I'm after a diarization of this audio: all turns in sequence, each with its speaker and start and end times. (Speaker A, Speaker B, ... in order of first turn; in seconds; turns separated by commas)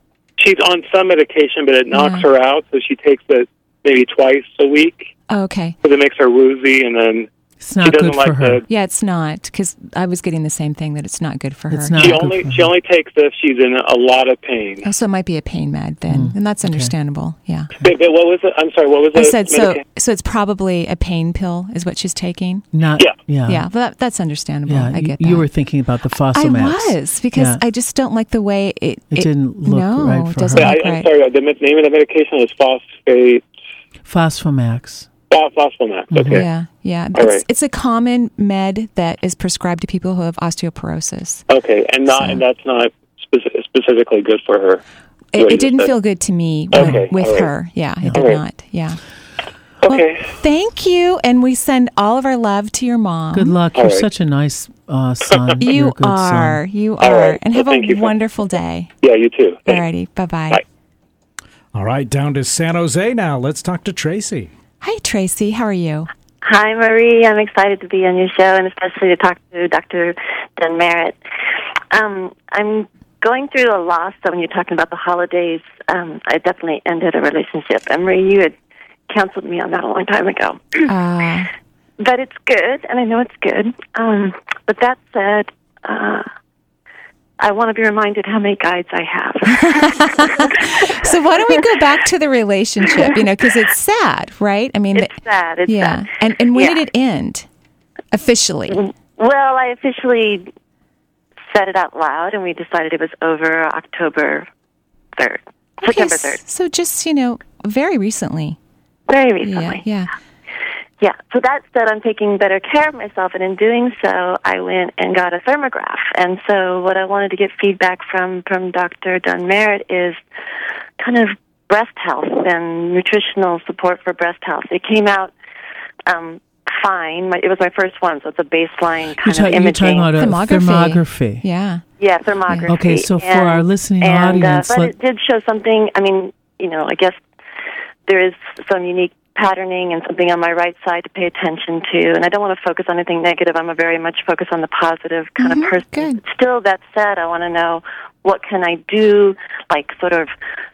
Speaker A: 0.4-5.1, Speaker B: 1.9-2.3, Speaker B: 5.3-5.8, Speaker A: 5.8-7.3, Speaker C: 7.6-8.6, Speaker A: 7.8-8.6, Speaker B: 8.7-12.2, Speaker C: 11.7-12.7, Speaker A: 12.0-14.8, Speaker B: 14.8-17.7, Speaker C: 16.1-16.9, Speaker A: 17.8-19.8, Speaker B: 19.1-22.7, Speaker C: 22.7-23.7, Speaker B: 23.5-25.5, Speaker C: 24.7-27.6, Speaker B: 26.3-31.1, Speaker C: 29.1-30.8, Speaker A: 30.6-33.5, Speaker C: 34.0-35.1, Speaker A: 35.3-36.4, Speaker C: 36.1-36.5, Speaker B: 36.3-41.5, Speaker A: 37.1-37.4, Speaker A: 41.5-44.8, Speaker B: 42.1-42.4, Speaker B: 45.3-49.0, Speaker A: 45.4-45.9, Speaker A: 46.7-47.5, Speaker A: 48.2-48.4, Speaker A: 49.8-50.3, Speaker B: 49.9-53.5, Speaker C: 53.3-56.6, Speaker A: 53.8-54.1, Speaker B: 55.6-58.9, Speaker A: 57.0-58.2, Speaker A: 59.0-59.8, Speaker B: 59.7-60.6, Speaker D: 61.7-64.5, Speaker B: 64.8-66.1, Speaker E: 66.4-71.2, Speaker E: 71.9-78.5, Speaker E: 79.1-80.9, Speaker B: 80.9-81.5, Speaker E: 82.0-86.3, Speaker E: 87.4-90.9, Speaker B: 89.5-95.1, Speaker E: 94.9-96.8, Speaker B: 95.7-97.5, Speaker B: 98.1-98.8, Speaker E: 98.7-100.5, Speaker E: 101.5-104.5, Speaker E: 105.2-106.4, Speaker B: 105.8-108.6, Speaker E: 109.1-109.8, Speaker B: 109.4-110.1, Speaker E: 111.0-120.2, Speaker E: 121.0-125.3, Speaker E: 126.1-130.1, Speaker C: 129.2-131.4, Speaker B: 130.2-131.8, Speaker E: 132.0-137.2, Speaker B: 132.5-132.7, Speaker C: 132.7-134.9, Speaker E: 138.1-150.3, Speaker B: 145.4-146.2